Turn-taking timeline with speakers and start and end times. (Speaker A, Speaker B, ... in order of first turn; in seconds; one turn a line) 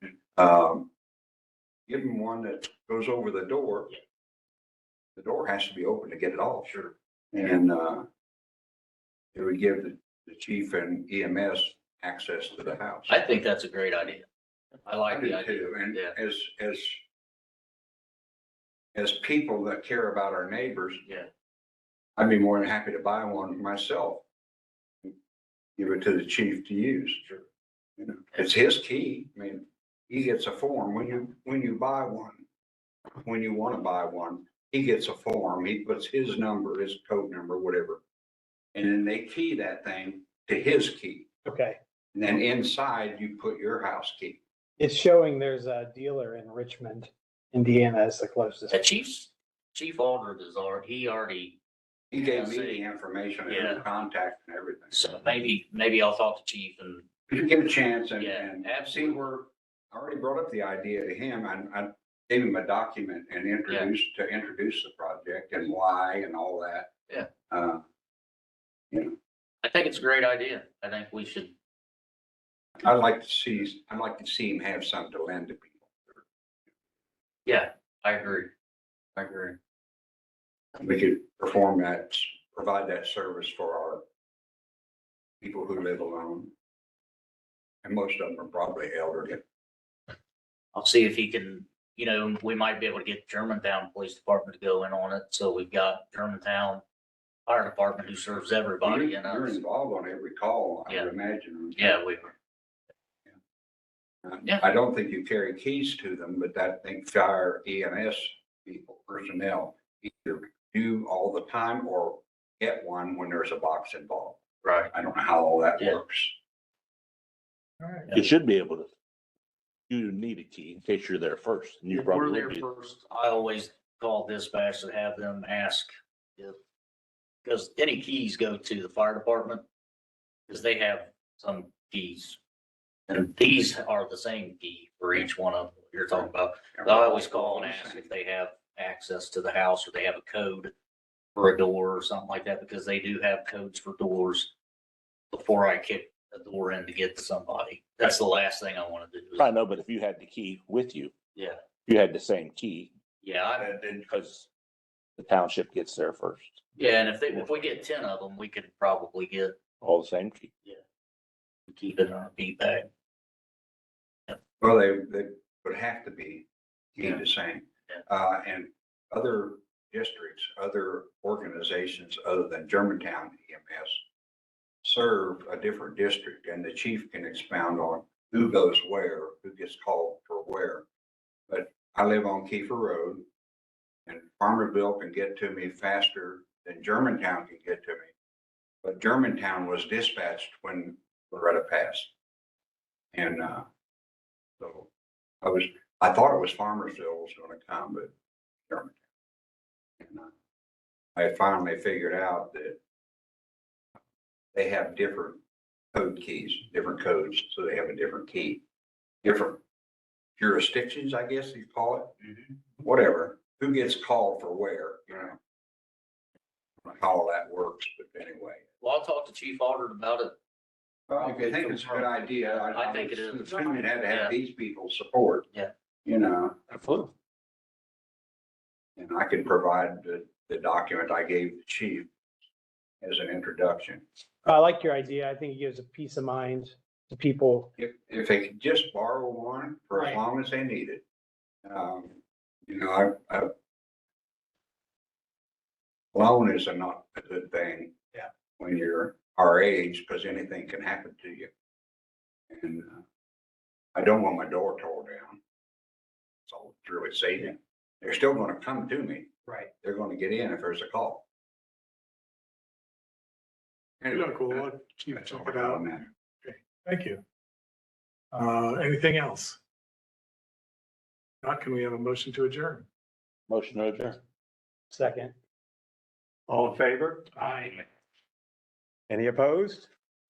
Speaker A: 0.3-0.9
Speaker A: 1.9-4.0
Speaker A: 5.2-8.1
Speaker A: 9.3-13.2
Speaker B: 13.1-14.3
Speaker B: 14.9-16.2
Speaker A: 15.1-17.0
Speaker A: 18.9-21.0
Speaker A: 22.2-24.2
Speaker A: 25.8-27.4
Speaker A: 28.0-32.5
Speaker A: 33.2-38.0
Speaker A: 38.8-41.3
Speaker C: 41.5-41.8
Speaker A: 42.1-44.4
Speaker C: 44.8-48.8
Speaker B: 48.7-51.6
Speaker A: 52.1-55.1
Speaker B: 52.2-52.8
Speaker B: 53.5-53.9
Speaker B: 54.9-57.1
Speaker A: 57.3-66.9
Speaker B: 58.2-59.2
Speaker A: 67.5-67.8
Speaker B: 69.6-71.5
Speaker A: 72.8-76.2
Speaker B: 77.5-78.5
Speaker A: 79.2-79.6
Speaker A: 80.8-84.0
Speaker A: 85.4-86.5
Speaker A: 87.8-89.4
Speaker B: 90.8-96.8
Speaker B: 97.5-99.6
Speaker A: 98.8-102.0
Speaker B: 101.8-102.3
Speaker A: 104.2-114.4
Speaker B: 114.6-114.9
Speaker A: 114.9-116.3
Speaker D: 118.1-118.9
Speaker D: 119.9-122.7
Speaker B: 121.9-126.6
Speaker B: 127.5-129.6
Speaker B: 130.5-132.4
Speaker B: 133.1-140.7
Speaker A: 136.8-138.1
Speaker B: 141.4-144.5
Speaker B: 145.3-149.5
Speaker D: 149.4-151.1
Speaker D: 151.8-152.9
Speaker B: 153.2-153.8
Speaker D: 153.8-154.5
Speaker D: 155.2-156.6
Speaker B: 156.8-159.6
Speaker D: 157.4-157.7
Speaker D: 159.8-160.5
Speaker B: 161.7-162.9
Speaker A: 164.6-174.0
Speaker A: 174.8-180.9
Speaker A: 181.5-183.2
Speaker A: 184.1-188.1
Speaker A: 188.8-192.1
Speaker A: 193.1-193.7
Speaker A: 194.6-194.9
Speaker A: 195.4-198.1
Speaker A: 198.7-199.0
Speaker A: 200.0-200.3
Speaker A: 201.2-202.8
Speaker A: 204.5-205.4
Speaker A: 205.9-208.6
Speaker A: 209.2-209.6
Speaker A: 210.4-212.2
Speaker A: 212.8-215.4
Speaker A: 216.8-218.7
Speaker B: 218.8-220.3
Speaker A: 221.1-225.5
Speaker B: 221.1-224.3
Speaker A: 226.1-226.6
Speaker B: 226.7-227.1
Speaker A: 229.0-232.1
Speaker A: 233.0-234.0
Speaker C: 234.4-237.7
Speaker A: 237.8-241.0
Speaker A: 241.6-243.5
Speaker A: 246.1-248.0
Speaker A: 248.6-251.5
Speaker A: 252.5-253.0
Speaker A: 253.9-255.4
Speaker A: 256.5-261.2
Speaker A: 264.0-266.1
Speaker E: 264.1-267.2
Speaker E: 268.3-269.6
Speaker E: 271.4-272.9
Speaker D: 273.5-274.2
Speaker C: 274.9-275.4
Speaker F: 276.5-277.8
Speaker F: 279.1-279.9